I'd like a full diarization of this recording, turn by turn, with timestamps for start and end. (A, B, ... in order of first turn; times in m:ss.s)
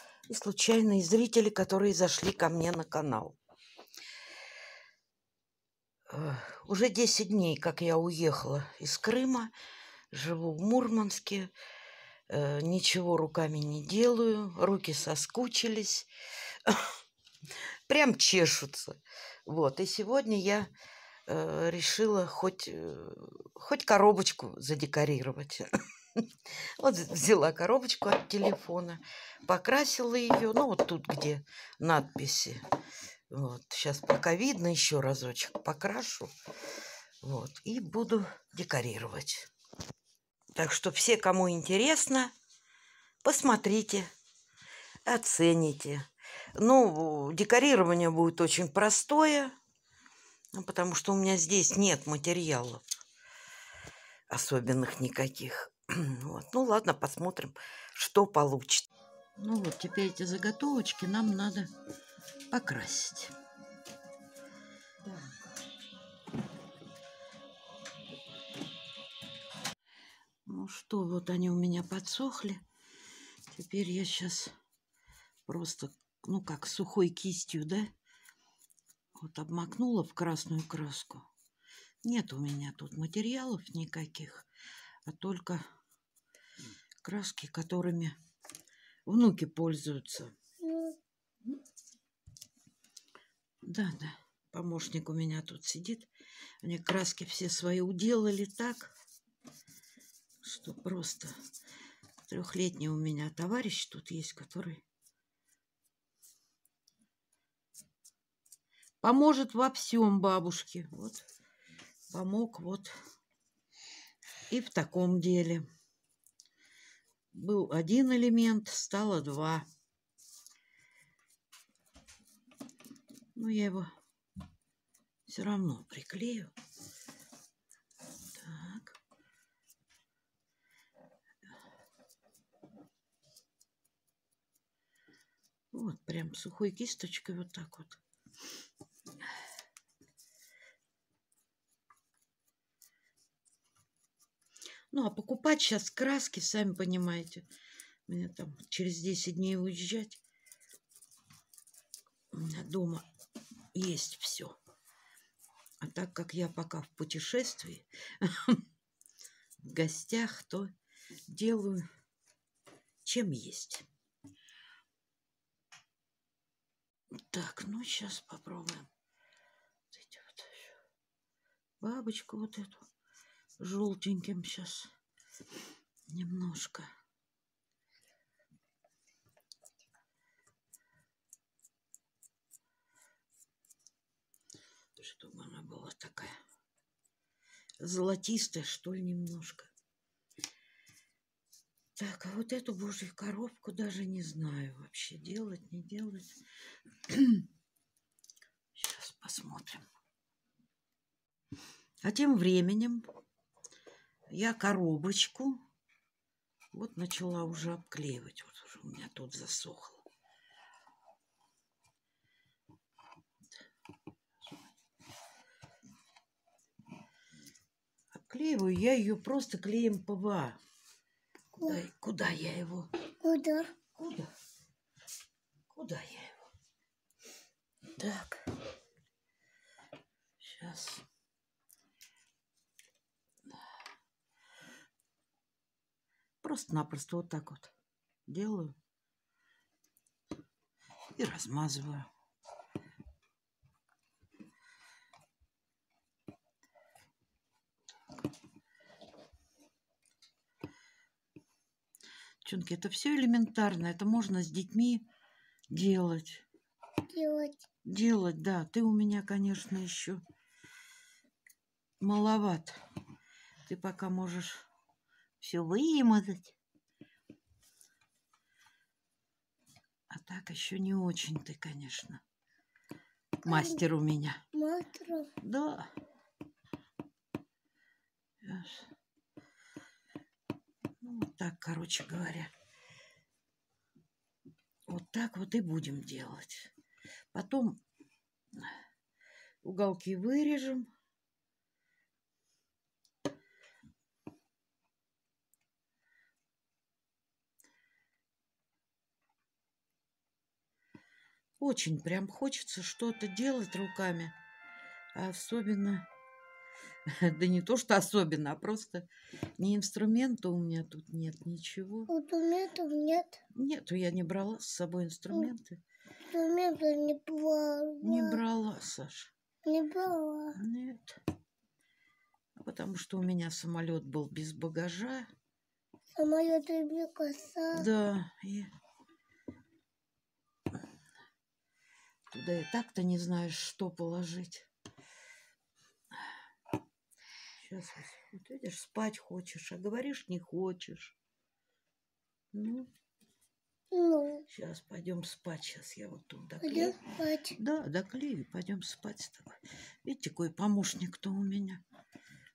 0:00.3-0:03.4 A
0:06.1-0:09.5 A
0:10.1-0:11.5 A
0:12.3-0:16.1 A
0:16.6-0:16.9 A
0:17.9-0:20.7 A
0:21.3-0:32.6 A
0:33.3-0:36.3 A
0:37.2-0:39.5 A
0:40.6-0:42.3 A
0:43.2-0:44.1 A
0:45.0-0:49.6 A
0:50.5-0:52.8 A
0:54.3-1:01.7 A
1:02.5-1:03.4 A
1:10.5-1:12.6 A
1:13.5-1:14.6 A
1:15.5-1:17.9 A
1:19.2-1:21.3 A
1:22.0-1:24.5 A
1:25.1-1:25.6 A
1:27.0-1:28.2 A
1:29.1-1:30.3 A
1:30.6-1:31.0 B
1:33.6-1:36.1 A
1:36.6-1:38.9 A
1:40.4-1:41.4 A
1:42.3-1:44.8 A
1:49.0-1:51.3 A
1:52.1-1:52.9 A
1:54.5-1:55.6 A
1:57.3-1:59.7 A
2:03.4-2:03.9 A
2:05.3-2:06.5 A
2:08.4-2:09.0 A
2:15.7-2:18.0 A
2:24.9-2:27.5 A
2:28.1-2:30.2 A
2:32.3-2:33.1 A
2:33.7-2:34.6 A
2:35.8-2:38.6 A
2:39.6-2:40.7 A
2:41.3-2:41.9 A
2:43.0-2:43.9 A
2:47.1-2:48.9 A
2:49.9-2:50.7 A
2:51.8-2:52.9 A
2:53.6-2:54.9 A
2:56.1-2:56.9 A
3:05.0-3:06.4 A
3:07.8-3:09.7 A
3:12.0-3:16.4 A
3:17.1-3:17.5 A
3:18.8-3:19.8 A
3:22.0-3:23.1 A
3:24.3-3:25.6 A
3:26.7-3:30.1 A
3:38.1-3:40.6 A
3:41.5-3:43.0 A
3:43.2-3:43.7 B
3:43.9-3:44.3 A
3:45.7-3:46.5 A
3:48.0-3:48.5 A
3:50.4-3:51.0 A
3:56.4-3:57.7 A
3:58.3-3:58.8 A
4:01.2-4:02.1 A
4:12.4-4:15.0 A
4:15.7-4:16.4 A
4:17.1-4:17.6 B
4:17.8-4:20.2 A
4:22.0-4:22.8 A
4:23.7-4:24.7 A
4:25.4-4:26.6 A
4:30.1-4:32.2 A
4:33.4-4:34.4 A
4:33.5-4:33.8 B
4:34.5-4:35.3 B
4:35.4-4:35.9 A
4:38.4-4:38.9 A
4:41.0-4:42.5 A
4:44.9-4:46.7 A
4:47.3-4:47.8 A
4:49.6-4:50.9 A
5:01.6-5:04.3 A
5:05.1-5:06.1 A
5:07.1-5:09.1 A
5:09.6-5:12.1 A
5:12.1-5:13.4 B
5:13.5-5:15.8 A
5:16.3-5:18.4 B
5:18.0-5:19.3 A
5:19.7-5:20.6 B
5:20.6-5:21.2 A
5:22.6-5:25.3 A
5:26.2-5:27.9 B
5:27.7-5:28.7 A
5:32.3-5:34.7 A
5:37.6-5:41.2 A
5:42.5-5:42.9 A
5:43.9-5:44.4 B
5:44.5-5:47.0 A
5:46.6-5:47.6 B
5:47.5-5:51.8 A